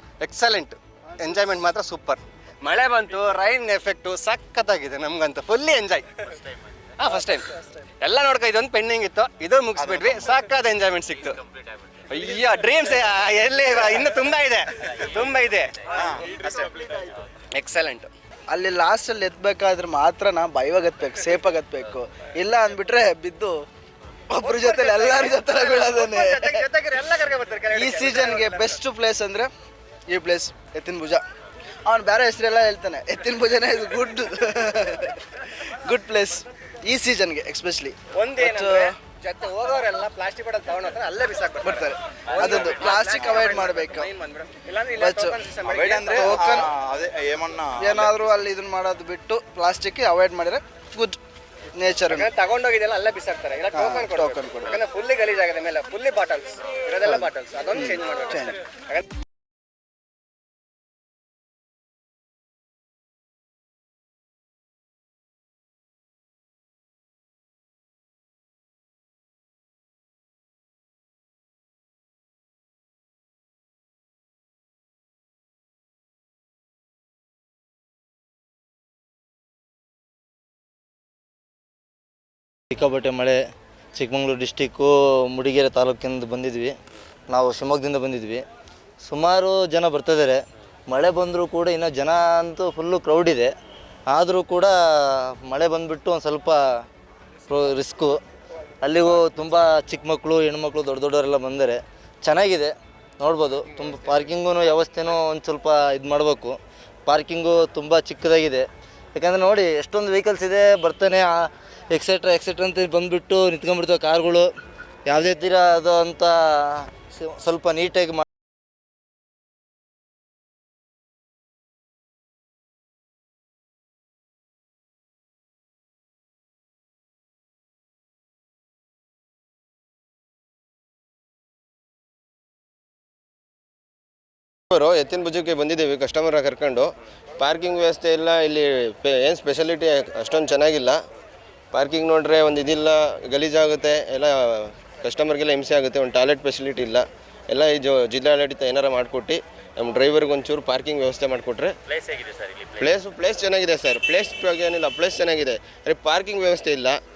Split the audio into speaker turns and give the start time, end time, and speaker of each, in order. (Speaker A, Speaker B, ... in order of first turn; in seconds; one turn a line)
Speaker A: 0.2-6.1
Speaker B: 6.2-6.6
Speaker A: 7.0-7.5
Speaker A: 8.0-11.4
Speaker C: 9.8-10.4
Speaker B: 11.1-12.0
Speaker A: 12.1-15.7
Speaker C: 16.0-16.3
Speaker A: 17.5-18.1
Speaker D: 18.5-23.6
Speaker D: 24.3-26.7
Speaker A: 24.4-28.8
Speaker D: 27.7-29.5
Speaker D: 30.1-31.2
Speaker D: 31.9-35.1
Speaker D: 35.9-39.0
Speaker A: 38.2-46.4
Speaker D: 41.6-44.1
Speaker D: 44.9-45.4
Speaker C: 45.6-48.3
Speaker D: 46.2-46.7
Speaker D: 47.8-51.2
Speaker D: 51.8-52.3
Speaker A: 52.1-58.4
Speaker D: 53.7-54.8
Speaker D: 57.0-58.6
Speaker E: 82.7-83.4
Speaker E: 84.0-86.8
Speaker E: 87.3-88.4
Speaker E: 89.0-93.5
Speaker E: 94.1-96.6
Speaker E: 97.5-98.2
Speaker E: 98.8-114.5
Speaker E: 115.1-116.3
Speaker E: 117.1-118.2
Speaker F: 134.7-141.0
Speaker F: 141.7-151.7
Speaker B: 151.9-153.0
Speaker F: 152.8-157.0